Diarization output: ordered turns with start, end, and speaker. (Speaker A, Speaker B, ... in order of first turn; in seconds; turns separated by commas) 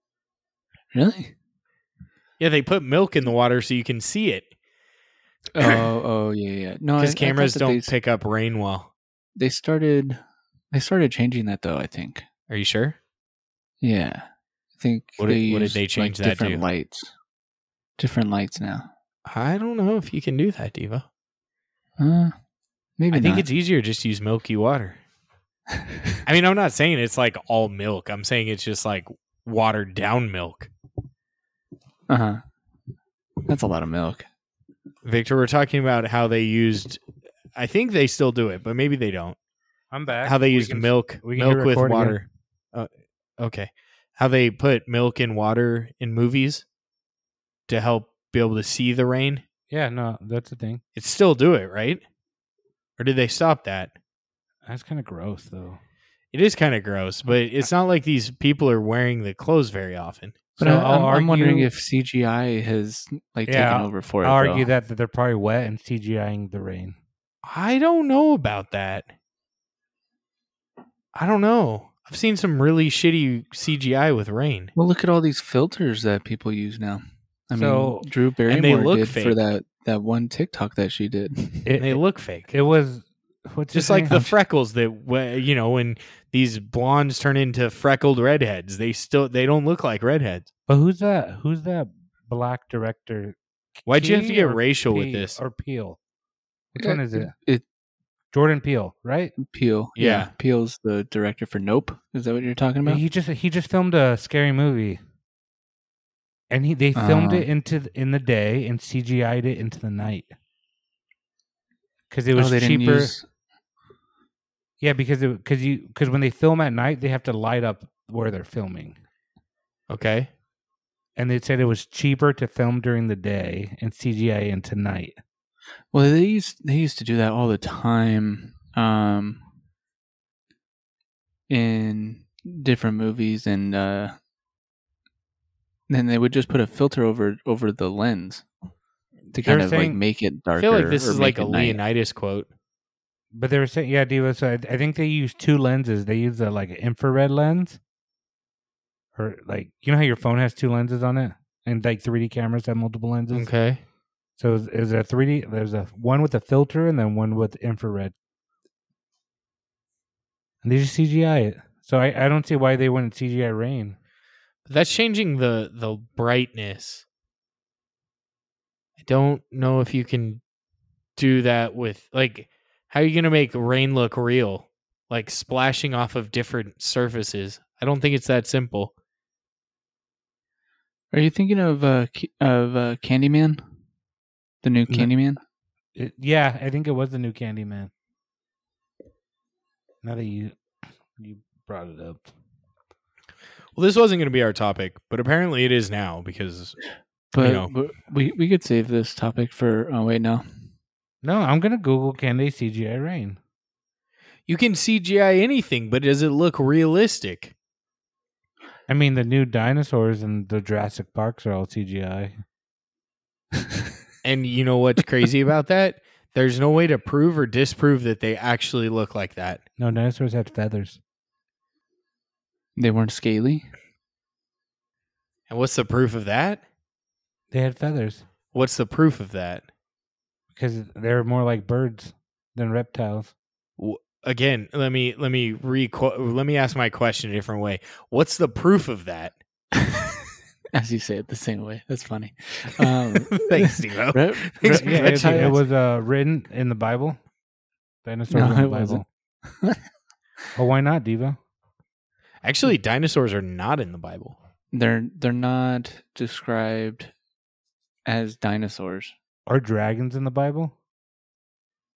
Speaker A: 0.9-1.3, Speaker B: 2.4-4.5, Speaker A: 5.5-7.9, Speaker B: 7.0-8.9, Speaker A: 9.3-10.2, Speaker A: 10.7-12.2, Speaker B: 12.5-13.0, Speaker A: 13.8-17.1, Speaker B: 15.2-16.6, Speaker A: 18.0-18.9, Speaker B: 19.2-21.1, Speaker A: 22.0-22.3, Speaker A: 23.0-23.5, Speaker B: 23.1-25.0, Speaker B: 26.2-30.7, Speaker A: 32.1-32.4, Speaker A: 33.5-34.3, Speaker B: 35.0-37.0, Speaker B: 37.5-39.4, Speaker C: 39.9-42.2, Speaker B: 40.2-46.6, Speaker B: 47.7-49.4, Speaker C: 49.7-50.8, Speaker B: 51.0-52.0, Speaker B: 53.0-53.9, Speaker C: 54.6-55.8, Speaker B: 56.3-60.5, Speaker C: 60.6-61.7, Speaker A: 60.6-64.7, Speaker C: 63.5-67.0, Speaker B: 67.4-69.1, Speaker B: 71.1-74.7, Speaker A: 74.8-81.7, Speaker C: 77.5-78.1, Speaker B: 78.5-79.4, Speaker C: 81.6-84.3, Speaker B: 81.8-82.5, Speaker B: 83.7-90.5, Speaker C: 90.7-96.0, Speaker B: 93.9-95.4, Speaker C: 96.7-97.3, Speaker A: 96.8-97.6, Speaker C: 98.3-99.3, Speaker A: 99.4-103.0, Speaker B: 100.0-100.3, Speaker C: 102.8-105.0, Speaker C: 106.5-110.3, Speaker A: 106.9-107.5, Speaker C: 112.1-113.2, Speaker A: 112.3-113.2, Speaker C: 114.8-119.0, Speaker B: 119.9-120.3, Speaker C: 121.2-125.1, Speaker A: 125.9-129.4, Speaker A: 131.5-134.2, Speaker A: 135.9-138.4, Speaker A: 139.3-141.8, Speaker C: 139.4-140.0, Speaker B: 140.6-142.5, Speaker C: 143.3-147.8, Speaker C: 149.1-153.5, Speaker B: 153.3-153.8, Speaker C: 154.4-158.1, Speaker C: 160.6-164.0, Speaker B: 164.7-167.0, Speaker B: 169.0-170.4, Speaker B: 171.2-178.9, Speaker A: 181.1-183.6, Speaker A: 184.6-185.4, Speaker C: 185.9-187.9, Speaker C: 190.0-190.6, Speaker C: 191.2-192.3, Speaker B: 193.7-196.8, Speaker A: 197.3-200.4, Speaker B: 197.4-197.7, Speaker C: 201.2-203.4, Speaker B: 204.5-207.5, Speaker C: 208.9-212.3, Speaker B: 214.2-219.6, Speaker C: 219.8-221.0, Speaker A: 222.8-223.7, Speaker B: 225.5-226.6, Speaker C: 227.5-228.2, Speaker B: 228.5-229.7, Speaker C: 230.5-233.3, Speaker B: 233.8-239.3, Speaker A: 240.7-245.6, Speaker B: 242.9-245.6, Speaker C: 244.7-247.2, Speaker C: 248.0-249.0, Speaker A: 248.3-249.8, Speaker C: 250.5-251.4, Speaker B: 252.4-254.4, Speaker A: 254.7-257.1, Speaker A: 258.1-259.1, Speaker C: 259.5-260.7